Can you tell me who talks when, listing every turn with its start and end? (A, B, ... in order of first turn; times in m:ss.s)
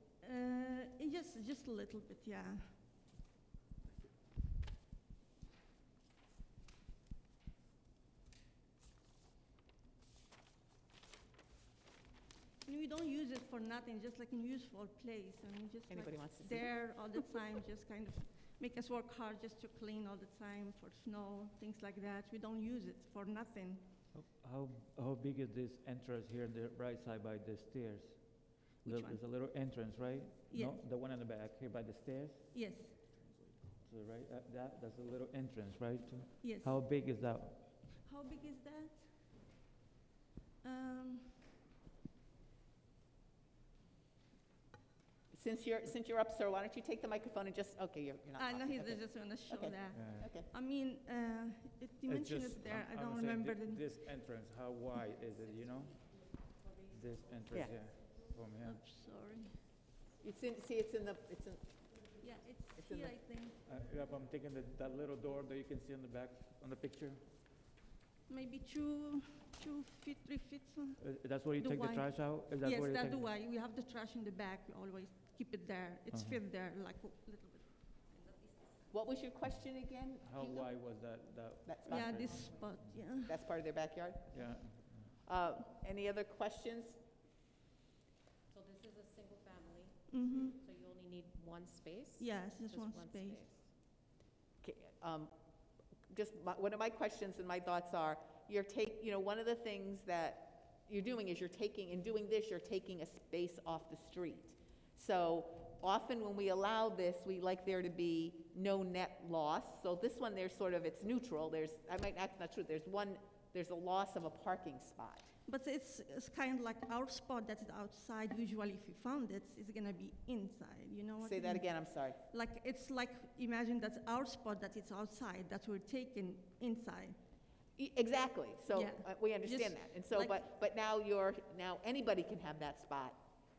0:00.2-0:02.6 A
0:12.6-0:23.8 A
0:15.9-0:16.7 B
0:24.1-0:32.5 C
0:28.8-0:29.2 A
0:30.5-0:30.8 A
0:32.5-0:33.0 A
0:33.7-0:37.8 C
0:36.4-0:36.8 A
0:37.8-0:39.0 A
0:40.6-0:41.4 A
0:45.3-0:50.5 B
0:48.4-0:53.8 A
0:49.9-0:50.3 C
0:52.0-0:58.8 C
0:58.6-0:59.6 A
1:00.2-1:01.7 B
1:02.2-1:03.6 A
1:02.8-1:03.1 B
1:03.6-1:07.3 C
1:08.3-1:11.0 A
1:11.0-1:13.3 C
1:11.6-1:18.9 A
1:16.1-1:16.4 C
1:18.9-1:20.7 B
1:20.2-1:22.9 C
1:21.6-1:22.3 B
1:21.9-1:23.4 A
1:23.2-1:24.6 B
1:24.3-1:25.1 C
1:25.2-1:27.0 B
1:28.5-1:33.7 D
1:30.1-1:30.6 A
1:32.2-1:33.4 A
1:34.6-1:35.3 B
1:36.1-1:55.3 B
1:55.4-2:01.7 A
2:01.2-2:02.2 B
2:02.2-2:07.2 A
2:07.8-2:13.2 B
2:08.7-2:10.4 A